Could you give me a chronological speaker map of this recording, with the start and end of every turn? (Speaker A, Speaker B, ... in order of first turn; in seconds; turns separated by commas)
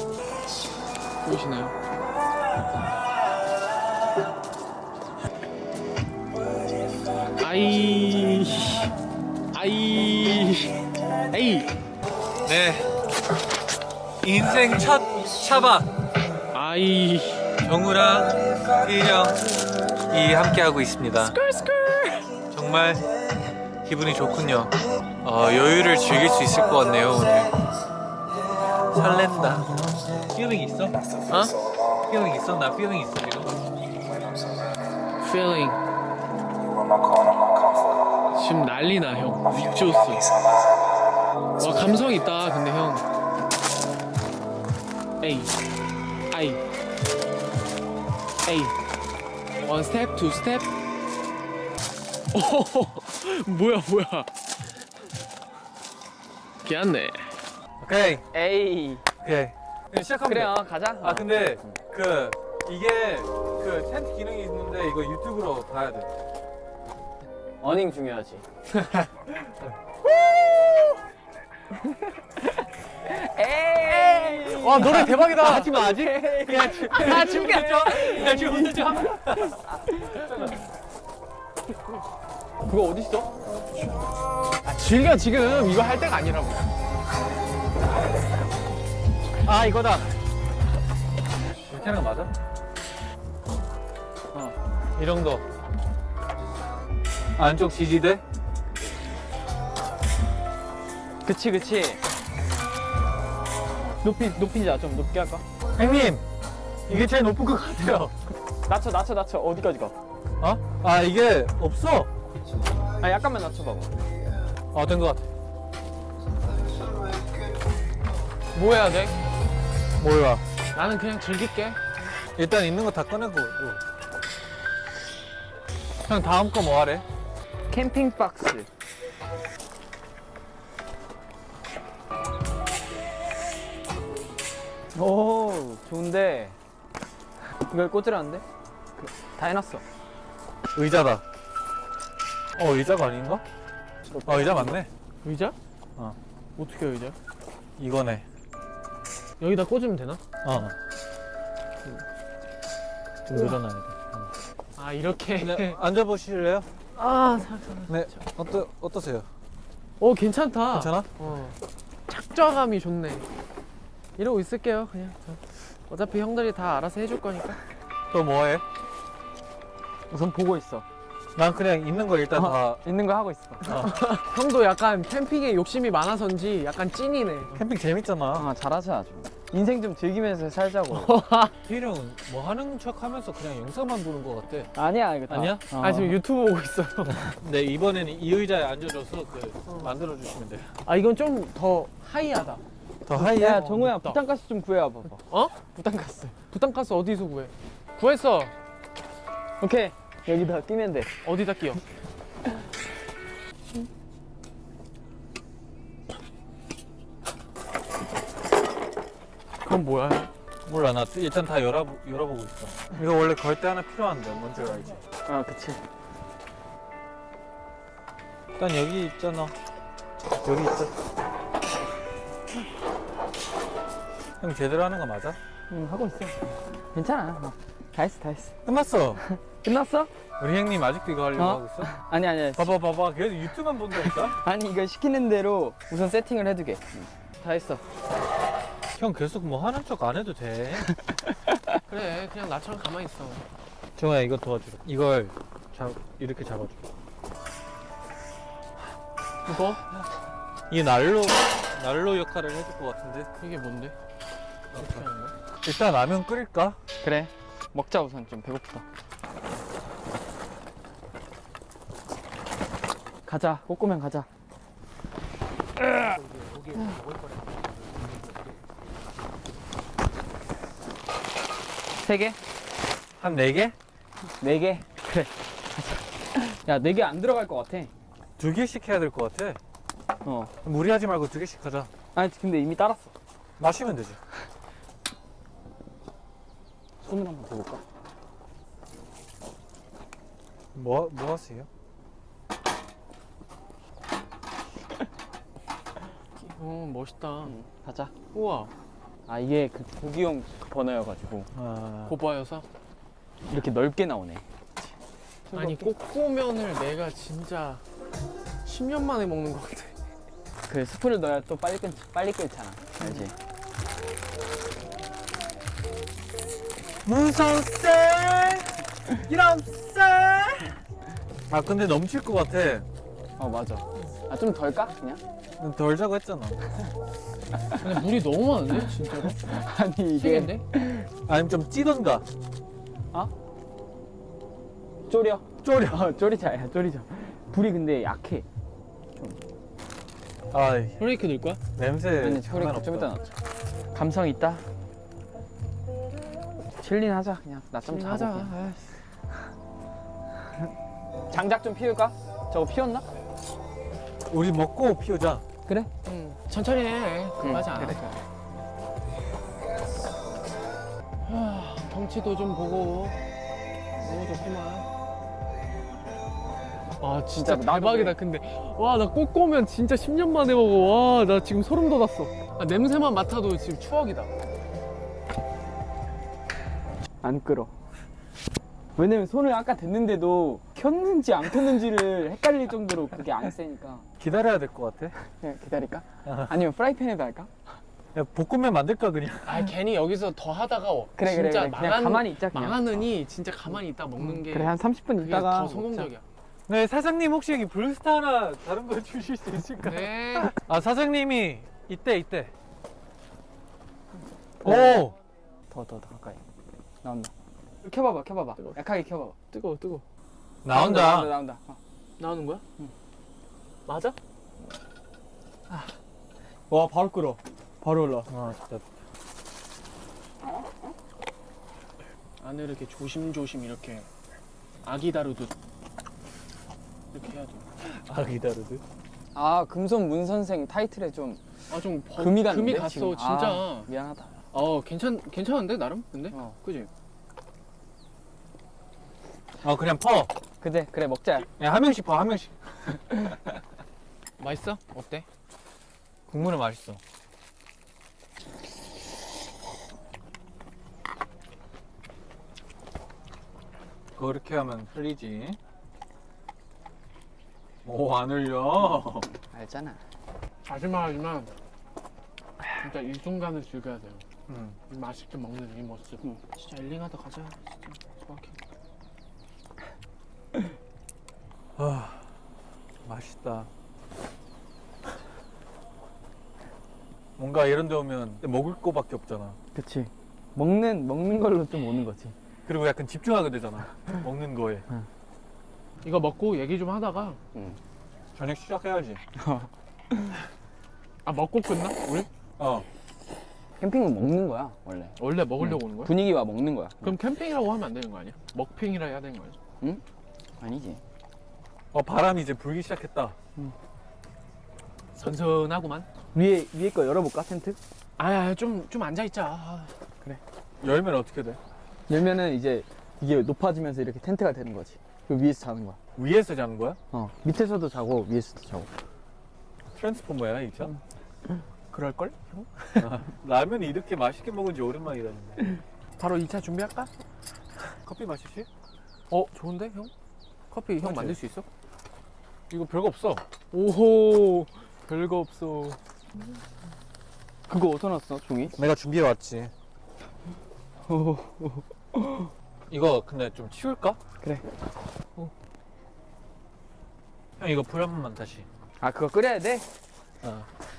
Speaker A: 1.2-1.8, Speaker A: 7.4-8.9, Speaker A: 9.5-11.7, Speaker B: 12.4-12.9, Speaker B: 14.2-15.9, Speaker A: 16.5-17.5, Speaker B: 17.6-19.4, Speaker B: 20.1-21.4, Speaker A: 21.2-22.3, Speaker B: 22.5-23.0, Speaker B: 23.9-27.6, Speaker B: 28.9-29.8, Speaker B: 30.3-31.0, Speaker A: 31.3-31.5, Speaker B: 32.1-33.5, Speaker A: 35.2-35.8, Speaker A: 38.3-40.3, Speaker A: 41.6-43.0, Speaker A: 45.2-45.5, Speaker A: 46.3-46.6, Speaker A: 48.5-48.8, Speaker A: 49.6-50.7, Speaker A: 52.3-54.3, Speaker A: 56.6-57.4, Speaker B: 57.8-58.3, Speaker C: 58.3-59.0, Speaker B: 59.2-66.1, Speaker C: 60.2-61.8, Speaker C: 67.6-68.4, Speaker A: 68.8-69.1, Speaker C: 70.5-70.9, Speaker C: 71.8-80.3, Speaker A: 74.5-75.8, Speaker B: 74.8-79.6, Speaker A: 77.0-78.6, Speaker B: 80.2-80.6, Speaker C: 82.7-83.3, Speaker A: 84.7-86.7, Speaker B: 89.4-90.1, Speaker B: 91.6-92.3, Speaker B: 95.0-95.5, Speaker B: 97.4-98.2, Speaker C: 101.2-102.0, Speaker C: 104.0-105.4, Speaker B: 105.8-106.2, Speaker B: 106.9-108.1, Speaker C: 108.7-110.0, Speaker B: 110.4-112.1, Speaker C: 113.0-114.0, Speaker B: 114.7-115.3, Speaker A: 118.5-119.2, Speaker B: 120.0-120.4, Speaker A: 120.7-121.8, Speaker B: 122.4-123.8, Speaker B: 126.0-127.0, Speaker C: 127.7-128.7, Speaker C: 134.9-136.6, Speaker C: 137.7-138.4, Speaker C: 139.0-139.8, Speaker B: 140.7-141.2, Speaker B: 142.6-143.4, Speaker C: 144.1-144.8, Speaker B: 144.3-144.9, Speaker A: 145.2-145.6, Speaker A: 146.6-147.2, Speaker B: 147.8-148.2, Speaker A: 149.4-150.2, Speaker B: 150.4-150.8, Speaker B: 153.3-154.3, Speaker A: 154.8-155.8, Speaker B: 155.4-156.7, Speaker A: 157.0-158.2, Speaker B: 157.9-159.3, Speaker A: 160.0-161.6, Speaker B: 160.7-161.1, Speaker A: 162.1-163.3, Speaker A: 164.2-167.6, Speaker B: 168.1-168.6, Speaker C: 170.1-170.9, Speaker B: 171.3-172.8, Speaker C: 172.3-173.8, Speaker B: 173.6-174.0, Speaker A: 173.8-177.6, Speaker B: 177.6-178.5, Speaker C: 178.3-181.1, Speaker A: 180.9-181.5, Speaker B: 181.6-184.7, Speaker C: 184.7-186.2, Speaker B: 185.3-185.7, Speaker A: 185.7-187.3, Speaker B: 187.1-190.8, Speaker A: 190.9-192.6, Speaker B: 193.1-193.7, Speaker C: 193.1-196.4, Speaker A: 193.4-194.2, Speaker A: 195.3-195.6, Speaker A: 196.5-198.5, Speaker C: 199.6-201.1, Speaker A: 201.2-201.8, Speaker A: 209.6-210.3, Speaker B: 210.7-215.0, Speaker C: 215.2-215.8, Speaker B: 218.6-219.5, Speaker B: 220.4-220.9, Speaker B: 224.4-225.4, Speaker C: 225.7-228.6, Speaker B: 228.7-229.2, Speaker C: 229.2-230.1, Speaker B: 230.4-231.9, Speaker C: 231.4-232.7, Speaker B: 232.6-234.4, Speaker C: 234.0-237.8, Speaker B: 239.0-241.0, Speaker A: 241.9-243.4, Speaker B: 244.0-246.9, Speaker A: 249.5-249.8, Speaker B: 250.7-253.3, Speaker A: 253.4-253.9, Speaker B: 254.7-255.0, Speaker A: 254.7-255.3, Speaker B: 255.6-256.8, Speaker C: 257.0-258.9, Speaker C: 263.3-264.3, Speaker C: 265.8-266.2, Speaker C: 272.0-272.4, Speaker B: 273.2-273.8, Speaker C: 274.4-277.9, Speaker B: 278.4-279.6, Speaker C: 280.2-280.5, Speaker B: 280.6-281.9, Speaker C: 282.1-283.1, Speaker B: 283.6-284.2, Speaker C: 287.0-287.8, Speaker B: 290.7-291.7, Speaker A: 296.4-297.6, Speaker C: 297.4-298.1, Speaker A: 298.3-298.7, Speaker C: 299.3-301.5, Speaker B: 301.5-302.1, Speaker A: 302.1-302.7, Speaker C: 303.5-304.4, Speaker C: 305.5-305.9, Speaker A: 305.6-307.8, Speaker A: 308.6-310.0, Speaker C: 310.7-313.3, Speaker B: 317.1-320.8, Speaker B: 321.5-322.9, Speaker C: 323.4-325.2, Speaker B: 325.6-326.6, Speaker A: 327.8-329.4, Speaker C: 329.4-331.1, Speaker A: 330.1-330.6, Speaker B: 331.3-332.2, Speaker C: 335.1-338.5, Speaker B: 335.6-336.1, Speaker B: 340.5-341.0, Speaker A: 341.0-341.6, Speaker B: 341.8-343.2, Speaker C: 342.2-343.3, Speaker C: 343.9-344.6, Speaker C: 346.8-348.5, Speaker A: 347.9-348.9, Speaker C: 351.3-353.1, Speaker B: 354.3-355.4, Speaker A: 356.0-358.0, Speaker C: 357.4-358.1, Speaker A: 361.2-363.2, Speaker A: 364.0-364.9, Speaker A: 367.0-374.3, Speaker C: 367.3-368.2, Speaker C: 377.2-377.7, Speaker C: 378.9-384.1, Speaker B: 384.2-385.2, Speaker C: 385.3-387.5, Speaker B: 386.2-386.6, Speaker B: 388.1-389.7, Speaker A: 389.4-396.2, Speaker C: 391.2-393.0, Speaker C: 394.2-396.1, Speaker B: 396.7-402.5, Speaker A: 399.8-400.6, Speaker C: 404.6-405.1, Speaker B: 404.6-405.2, Speaker C: 405.7-406.4, Speaker C: 407.0-407.3, Speaker C: 407.8-409.4, Speaker A: 409.5-410.0, Speaker B: 410.6-411.3, Speaker C: 410.7-411.8, Speaker A: 412.2-412.6, Speaker A: 413.9-414.2, Speaker C: 416.7-418.3, Speaker B: 418.3-418.8, Speaker A: 422.4-424.1, Speaker A: 424.8-425.5, Speaker A: 427.1-427.6, Speaker B: 427.8-428.8, Speaker C: 429.3-431.4, Speaker A: 431.7-433.9, Speaker C: 432.1-434.4, Speaker A: 434.5-436.9, Speaker C: 436.3-436.6, Speaker B: 439.6-440.3, Speaker C: 440.6-441.5, Speaker B: 441.5-443.2, Speaker A: 444.4-445.2, Speaker B: 446.3-447.0, Speaker B: 454.1-455.6, Speaker B: 457.8-459.3, Speaker C: 459.3-460.0, Speaker A: 460.7-461.5, Speaker A: 462.8-464.2, Speaker B: 464.5-464.8, Speaker A: 464.9-468.6, Speaker B: 471.8-472.3, Speaker B: 473.1-473.7, Speaker B: 477.4-479.6, Speaker C: 479.7-482.4, Speaker B: 482.7-484.9, Speaker A: 486.0-487.4, Speaker B: 488.4-489.2, Speaker C: 489.4-490.4, Speaker A: 491.2-492.3, Speaker B: 492.6-492.9, Speaker C: 493.8-497.2, Speaker A: 495.2-496.2, Speaker A: 497.0-499.6, Speaker C: 500.6-501.0, Speaker B: 501.9-503.4, Speaker A: 505.2-506.1, Speaker C: 506.3-507.8, Speaker A: 508.2-509.9, Speaker B: 510.8-511.6, Speaker C: 512.1-516.0, Speaker B: 516.2-517.0, Speaker C: 517.1-518.9, Speaker B: 519.9-520.9, Speaker A: 521.9-523.2, Speaker B: 523.0-525.7, Speaker A: 526.2-527.1, Speaker B: 528.0-528.7, Speaker A: 529.3-530.1, Speaker A: 530.7-531.7, Speaker B: 531.0-531.4, Speaker B: 532.7-533.4, Speaker A: 533.7-536.0, Speaker C: 537.7-538.8, Speaker B: 538.8-539.7, Speaker C: 541.0-542.5, Speaker B: 542.9-544.2, Speaker B: 547.6-548.7, Speaker C: 549.0-549.9, Speaker B: 550.4-550.7